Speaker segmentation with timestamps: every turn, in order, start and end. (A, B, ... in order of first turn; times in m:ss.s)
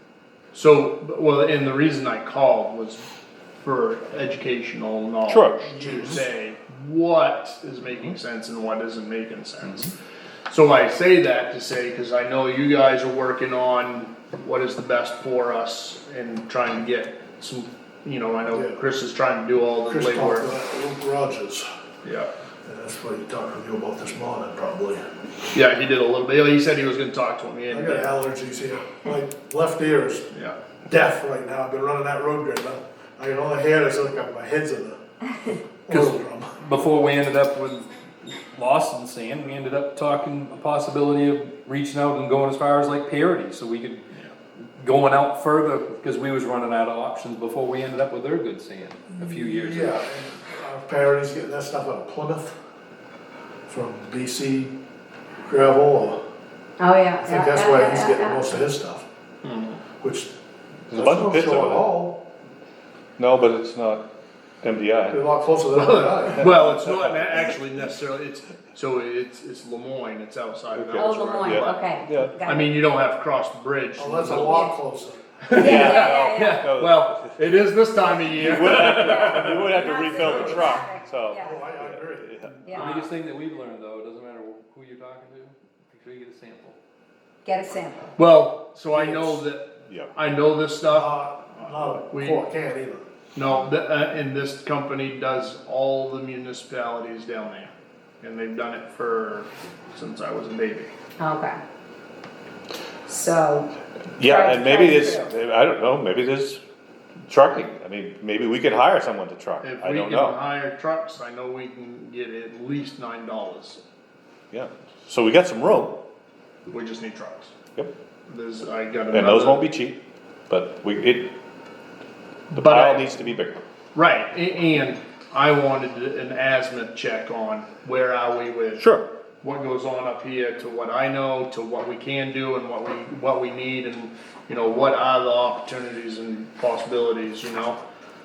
0:00.5-0:03.0 A
0:03.6-0:09.9 A
0:05.3-0:06.2 B
0:05.8-0:06.1 C
0:09.6-0:09.9 D
0:10.5-0:20.5 A
0:18.5-0:18.8 C
0:19.9-0:21.7 C
0:22.0-0:22.3 A
0:22.6-0:25.1 C
0:25.5-0:28.1 A
0:27.7-0:30.3 C
0:30.3-0:30.6 A
0:30.8-0:35.0 C
0:35.8-0:36.5 C
0:35.9-0:44.1 D
0:44.8-0:49.9 D
0:49.3-0:52.6 C
0:53.7-0:54.7 C
0:55.4-0:56.2 C
0:56.8-0:58.4 E
0:57.2-0:59.0 C
0:59.4-0:59.8 A
1:00.0-1:00.3 C
1:00.9-1:01.9 B
1:00.9-1:02.2 C
1:03.2-1:04.1 B
1:04.6-1:05.2 B
1:05.1-1:06.6 C
1:05.8-1:14.7 A
1:10.7-1:12.4 B
1:10.9-1:12.7 E
1:14.0-1:15.2 C
1:14.3-1:14.7 E
1:15.4-1:19.6 A
1:15.5-1:16.6 E
1:15.5-1:17.4 B
1:18.3-1:22.6 B
1:18.7-1:21.7 E
1:20.0-1:20.8 C
1:21.4-1:22.5 C
1:22.6-1:23.0 E
1:22.6-1:26.8 D
1:22.7-1:23.0 A
1:27.4-1:28.1 E
1:28.2-1:32.4 A
1:28.9-1:29.4 C
1:30.9-1:33.0 C
1:33.3-1:40.9 A
1:41.2-1:41.6 E
1:43.0-1:45.3 E
1:44.2-1:46.6 B
1:47.3-1:50.4 B
1:49.6-1:53.8 A
1:54.5-1:56.0 B
1:56.7-1:57.5 A
1:58.3-1:59.6 A
1:59.1-2:01.3 B
2:02.5-2:03.1 A
2:02.5-2:03.6 B
2:03.9-2:08.8 A
2:08.8-2:09.0 B
2:09.4-2:17.8 A